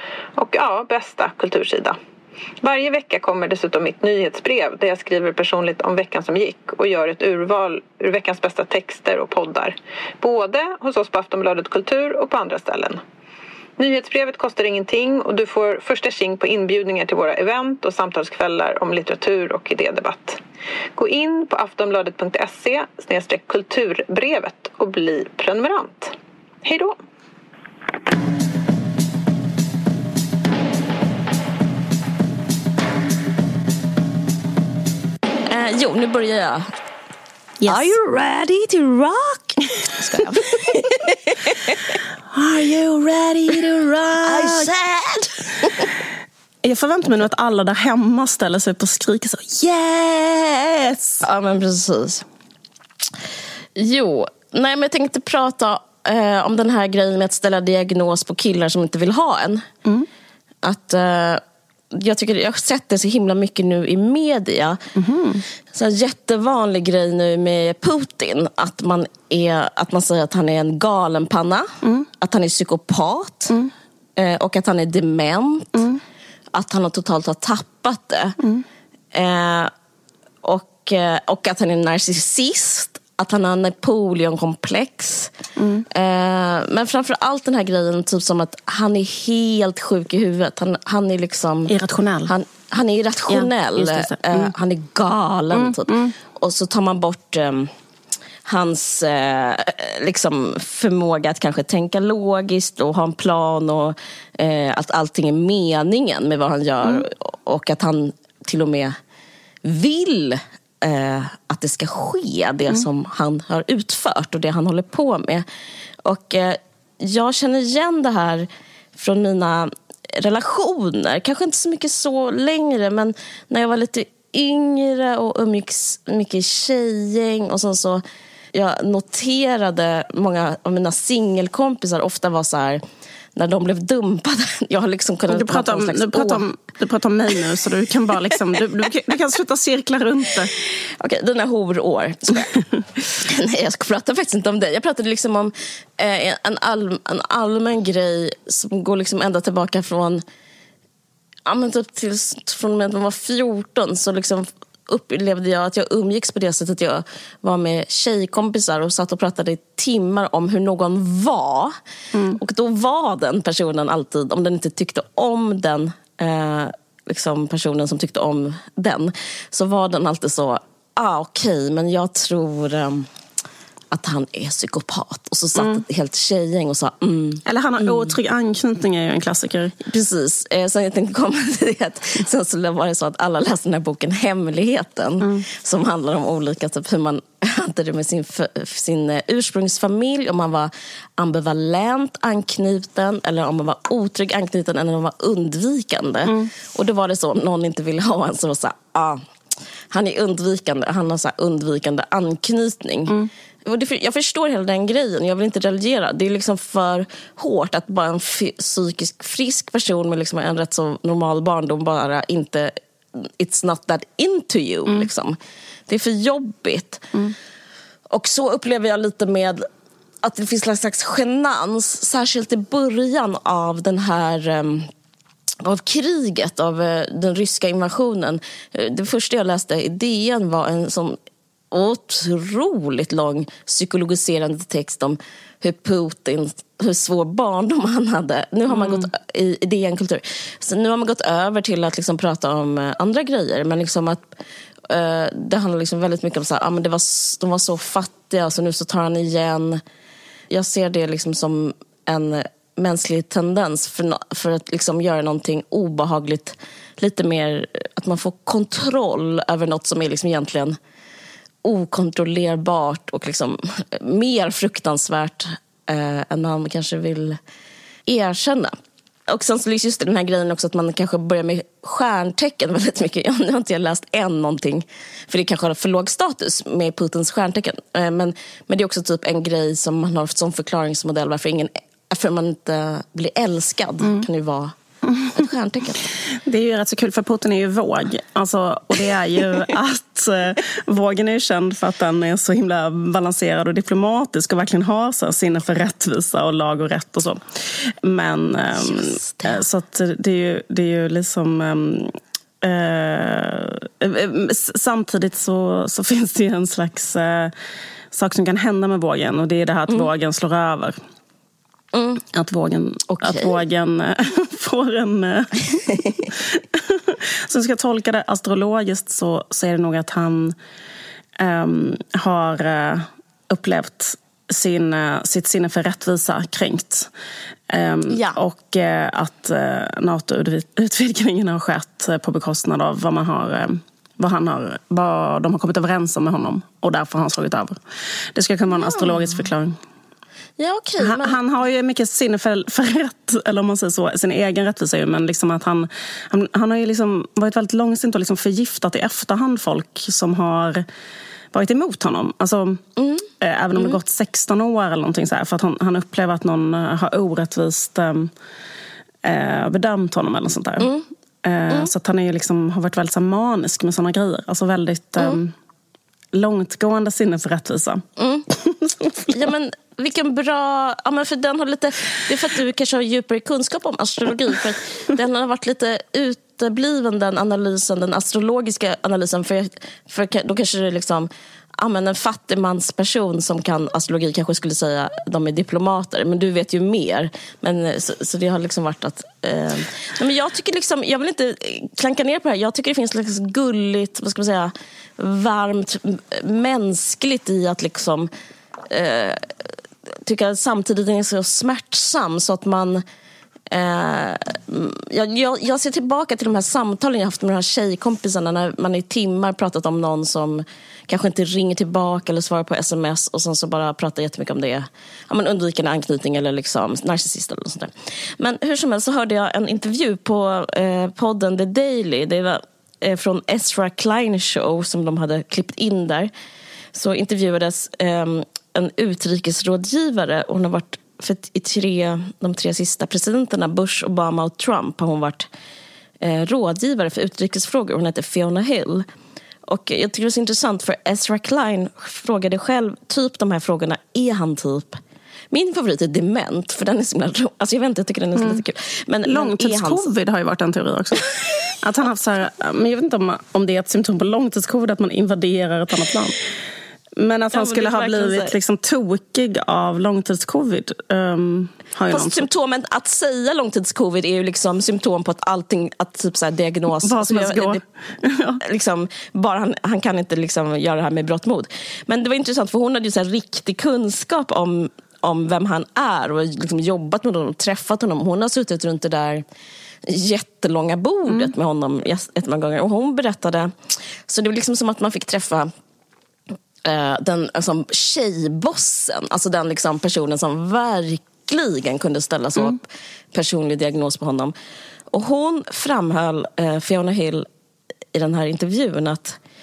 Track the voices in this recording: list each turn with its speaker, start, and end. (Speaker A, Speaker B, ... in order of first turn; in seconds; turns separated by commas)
Speaker A: 0.4-2.0, Speaker A: 2.6-13.0, Speaker A: 13.8-20.4, Speaker A: 21.0-27.0, Speaker B: 35.5-36.7, Speaker C: 37.6-38.0, Speaker B: 37.7-41.9, Speaker C: 42.3-44.7, Speaker B: 44.2-45.9, Speaker C: 46.6-51.2, Speaker B: 51.2-52.2, Speaker B: 53.8-59.7, Speaker B: 60.6-61.4, Speaker B: 61.9-64.8, Speaker C: 65.0-65.4, Speaker B: 65.7-73.5, Speaker C: 71.8-72.1, Speaker B: 74.2-75.8, Speaker C: 75.7-76.0, Speaker B: 76.5-78.4, Speaker C: 78.4-78.7, Speaker B: 79.1-79.7, Speaker B: 80.4-85.3, Speaker C: 85.6-85.9, Speaker B: 85.9-91.7, Speaker C: 91.7-92.3, Speaker B: 92.3-97.7, Speaker C: 93.3-94.5, Speaker C: 95.5-96.2, Speaker B: 98.5-108.9, Speaker B: 109.6-115.5, Speaker B: 116.0-128.0, Speaker B: 128.5-132.8, Speaker B: 133.4-136.5, Speaker C: 135.3-140.5, Speaker B: 140.7-150.2, Speaker B: 151.5-161.8, Speaker C: 162.1-162.4, Speaker B: 162.3-173.1, Speaker B: 173.9-178.1, Speaker C: 177.4-179.8, Speaker B: 179.8-199.2, Speaker C: 196.2-196.5, Speaker B: 199.9-215.4, Speaker B: 215.9-217.1, Speaker B: 218.1-219.7, Speaker B: 220.2-224.9, Speaker B: 225.6-231.2, Speaker B: 231.7-244.2, Speaker C: 238.7-239.1, Speaker B: 244.9-249.8, Speaker B: 250.5-260.8, Speaker B: 261.6-267.4, Speaker B: 268.1-268.8, Speaker B: 269.3-284.8, Speaker C: 285.1-285.4, Speaker B: 285.3-286.1, Speaker C: 286.4-307.5, Speaker B: 298.9-299.6, Speaker C: 308.1-311.0, Speaker B: 311.9-312.2, Speaker C: 312.3-320.6, Speaker B: 313.1-313.6, Speaker C: 321.4-327.1, Speaker C: 327.7-337.8, Speaker B: 328.1-328.4, Speaker C: 338.4-339.8, Speaker B: 338.7-339.3, Speaker B: 340.6-341.4, Speaker C: 341.0-350.9, Speaker C: 351.5-352.8, Speaker B: 353.0-354.0, Speaker C: 353.4-358.3, Speaker C: 359.2-360.9, Speaker B: 360.8-361.1, Speaker C: 361.4-365.5, Speaker C: 366.3-368.1, Speaker B: 368.2-368.5, Speaker C: 368.6-369.5, Speaker B: 369.3-398.3, Speaker B: 398.9-399.6, Speaker B: 400.2-403.0, Speaker B: 403.7-426.3, Speaker B: 426.9-435.5, Speaker B: 436.2-439.1, Speaker B: 439.7-450.1, Speaker C: 448.4-448.6, Speaker C: 449.2-456.4, Speaker C: 457.2-462.5, Speaker B: 457.5-458.6, Speaker B: 462.1-467.8, Speaker C: 467.0-468.6, Speaker B: 468.6-479.4, Speaker B: 480.1-485.7, Speaker B: 486.8-494.5, Speaker B: 495.1-497.5, Speaker B: 498.1-499.4